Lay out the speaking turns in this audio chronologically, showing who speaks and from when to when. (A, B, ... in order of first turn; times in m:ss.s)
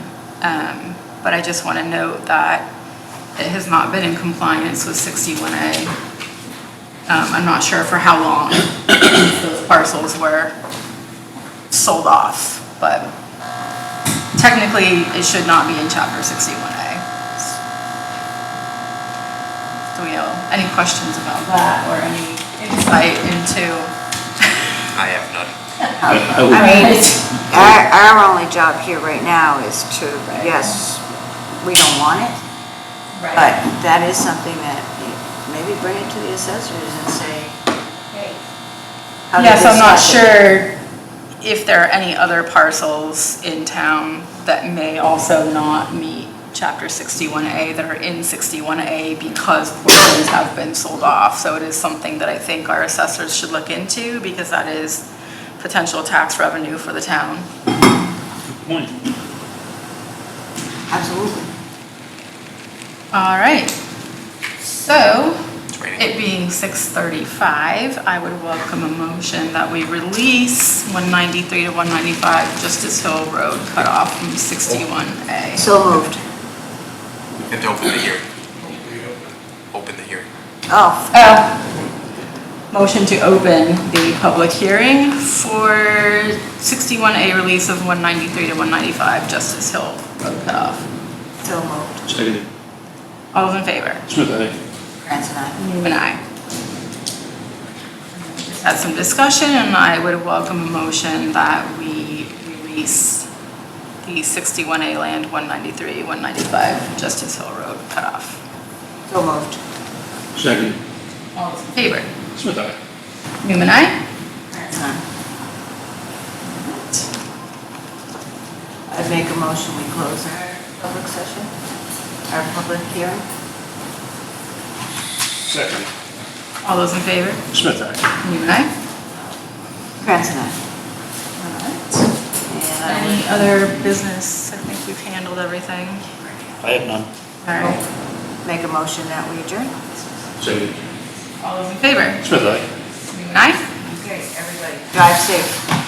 0:00.4-0:02.7 A
0:03.4-0:05.9 A
0:07.1-0:10.5 A
0:11.7-0:13.1 A
0:14.3-0:17.0 A
0:19.9-0:24.7 A
0:24.9-0:25.5 B
0:26.0-0:32.4 C
0:26.1-0:26.9 D
0:26.5-0:27.2 A
0:30.3-0:30.7 A
0:33.1-0:33.5 A
0:33.3-0:37.5 C
0:38.1-0:38.4 A
0:39.3-0:40.3 C
0:39.4-0:40.7 A
0:41.4-0:55.0 A
0:55.6-0:57.4 A
0:58.5-0:58.9 D
1:00.9-1:01.5 C
1:03.1-1:03.7 A
1:04.6-1:05.4 A
1:05.7-1:06.0 B
1:05.9-1:15.7 A
1:15.6-1:16.2 C
1:17.5-1:18.2 B
1:18.9-1:20.2 B
1:20.7-1:21.1 C
1:21.1-1:21.6 A
1:22.7-1:30.9 A
1:31.4-1:32.1 C
1:32.1-1:32.5 D
1:33.3-1:34.0 A
1:34.1-1:34.6 D
1:35.0-1:35.6 C
1:35.6-1:36.2 A
1:38.2-1:43.3 A
1:44.0-1:48.4 A
1:49.1-1:49.6 C
1:50.3-1:50.8 D
1:51.3-1:52.1 A
1:52.3-1:52.8 D
1:53.4-1:54.0 A
1:54.5-1:55.0 C
1:56.4-1:57.0 A
1:58.9-2:01.6 C
2:02.3-2:03.2 C
2:05.5-2:05.9 D
2:06.6-2:07.4 A
2:07.5-2:08.0 D
2:08.2-2:08.7 A
2:10.0-2:10.6 C
2:11.4-2:12.1 A
2:12.5-2:13.4 C
2:12.8-2:16.0 A
2:16.6-2:17.1 D
2:17.4-2:17.8 A
2:18.4-2:19.8 C
2:20.4-2:20.8 D
2:21.4-2:22.2 A
2:22.2-2:22.6 D
2:23.0-2:23.6 A
2:23.9-2:25.6 C